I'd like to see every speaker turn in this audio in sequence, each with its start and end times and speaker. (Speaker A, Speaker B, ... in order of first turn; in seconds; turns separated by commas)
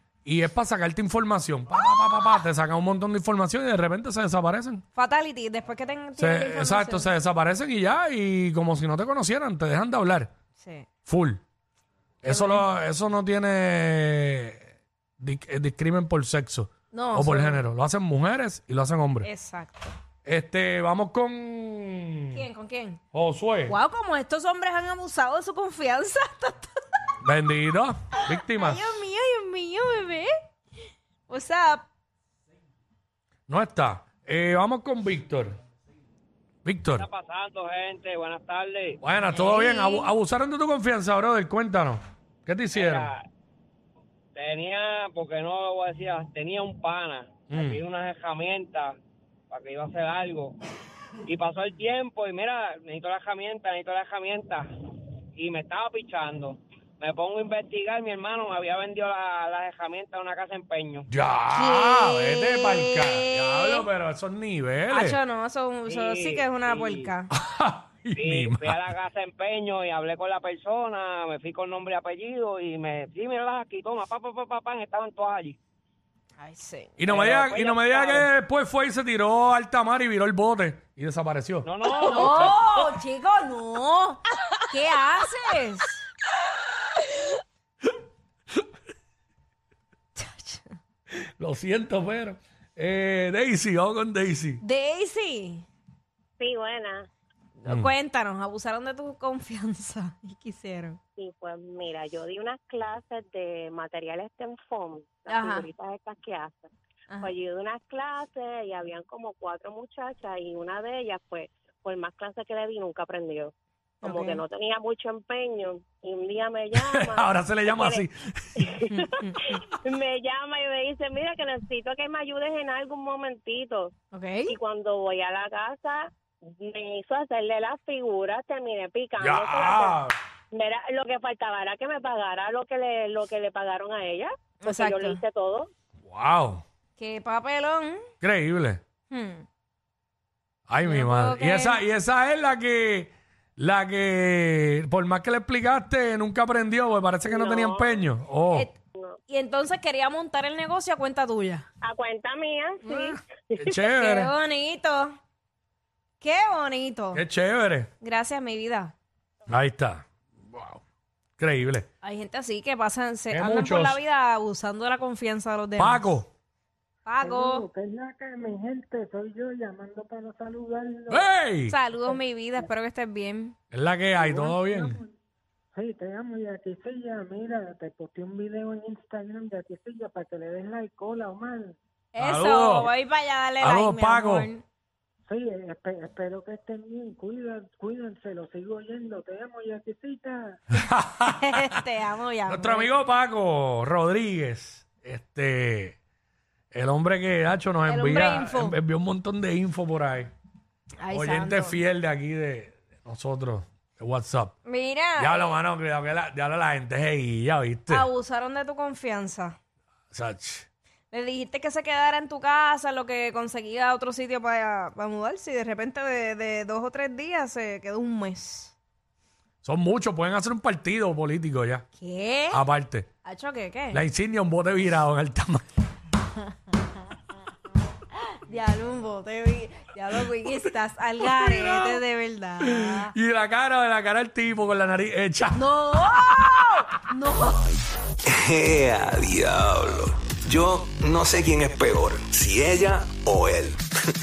Speaker A: 0.2-4.8, Speaker B: 1.8-2.3, Speaker B: 5.0-7.1, Speaker A: 6.2-10.3, Speaker B: 10.6-10.9, Speaker A: 11.1-11.4, Speaker A: 12.2-14.7, Speaker B: 12.3-12.7, Speaker A: 15.2-19.3, Speaker B: 16.9-17.6, Speaker B: 19.2-19.9, Speaker A: 20.2-22.4, Speaker B: 22.3-23.0, Speaker A: 23.1-23.8, Speaker B: 23.7-26.8, Speaker A: 27.2-29.0, Speaker B: 28.2-30.3, Speaker B: 31.3-31.9, Speaker A: 33.5-35.6, Speaker A: 36.6-37.1, Speaker C: 37.0-39.0, Speaker A: 39.0-43.1, Speaker B: 39.3-40.1, Speaker C: 42.7-43.2, Speaker C: 44.4-49.0, Speaker A: 47.5-47.8, Speaker C: 49.5-50.6, Speaker C: 51.2-54.7, Speaker C: 55.4-61.1, Speaker A: 61.1-65.2, Speaker B: 61.5-63.9, Speaker B: 64.9-67.3, Speaker C: 65.9-67.1, Speaker A: 67.4-68.8, Speaker C: 68.2-75.6, Speaker B: 76.4-77.0, Speaker A: 77.0-81.7, Speaker C: 77.1-78.3, Speaker C: 81.6-82.6, Speaker B: 82.0-86.0, Speaker B: 90.2-90.7, Speaker A: 91.2-94.6, Speaker B: 94.6-95.7, Speaker D: 96.4-97.1, Speaker B: 97.6-101.0, Speaker D: 101.2-106.7, Speaker B: 105.3-105.7, Speaker B: 107.1-107.4, Speaker D: 107.2-118.0, Speaker B: 114.0-114.4, Speaker A: 116.7-118.7, Speaker D: 118.6-123.9, Speaker B: 118.9-119.6, Speaker B: 124.1-124.6, Speaker D: 124.5-135.7, Speaker A: 129.2-130.2, Speaker B: 134.6-135.2, Speaker A: 136.1-136.6, Speaker B: 137.0-138.0, Speaker A: 138.2-138.8, Speaker B: 139.1-139.4, Speaker A: 140.7-148.7, Speaker B: 140.8-141.8, Speaker D: 147.2-148.1, Speaker B: 148.5-148.8, Speaker B: 149.3-151.7, Speaker D: 151.8-153.8, Speaker B: 152.8-153.2, Speaker A: 153.6-154.3, Speaker B: 153.9-155.2, Speaker B: 156.2-157.2, Speaker A: 157.1-157.9, Speaker B: 158.0-158.9, Speaker A: 159.5-160.8, Speaker A: 161.4-161.9, Speaker B: 162.0-166.2, Speaker A: 163.3-164.0, Speaker A: 165.8-166.3, Speaker B: 167.1-167.7, Speaker E: 167.2-171.3, Speaker A: 171.1-171.8, Speaker B: 171.7-173.6, Speaker E: 172.1-172.7, Speaker A: 173.7-175.0, Speaker E: 174.2-175.1, Speaker E: 175.7-181.8, Speaker B: 182.1-184.6, Speaker A: 182.2-182.9, Speaker A: 183.6-184.5, Speaker E: 185.3-190.6, Speaker A: 190.8-191.7, Speaker B: 191.3-192.9, Speaker A: 192.5-196.0, Speaker A: 196.7-200.3, Speaker B: 197.9-198.8, Speaker B: 201.0-201.8, Speaker A: 201.1-204.5, Speaker B: 204.7-205.6, Speaker A: 205.2-208.1, Speaker B: 207.9-209.6, Speaker A: 210.1-210.7, Speaker B: 211.1-218.7, Speaker A: 219.6-221.8, Speaker B: 222.0-222.7, Speaker A: 222.5-223.1, Speaker B: 223.2-224.0, Speaker A: 223.9-225.6, Speaker B: 228.2-233.1, Speaker A: 231.3-231.9, Speaker A: 232.6-236.4, Speaker B: 235.6-237.7, Speaker F: 238.2-243.8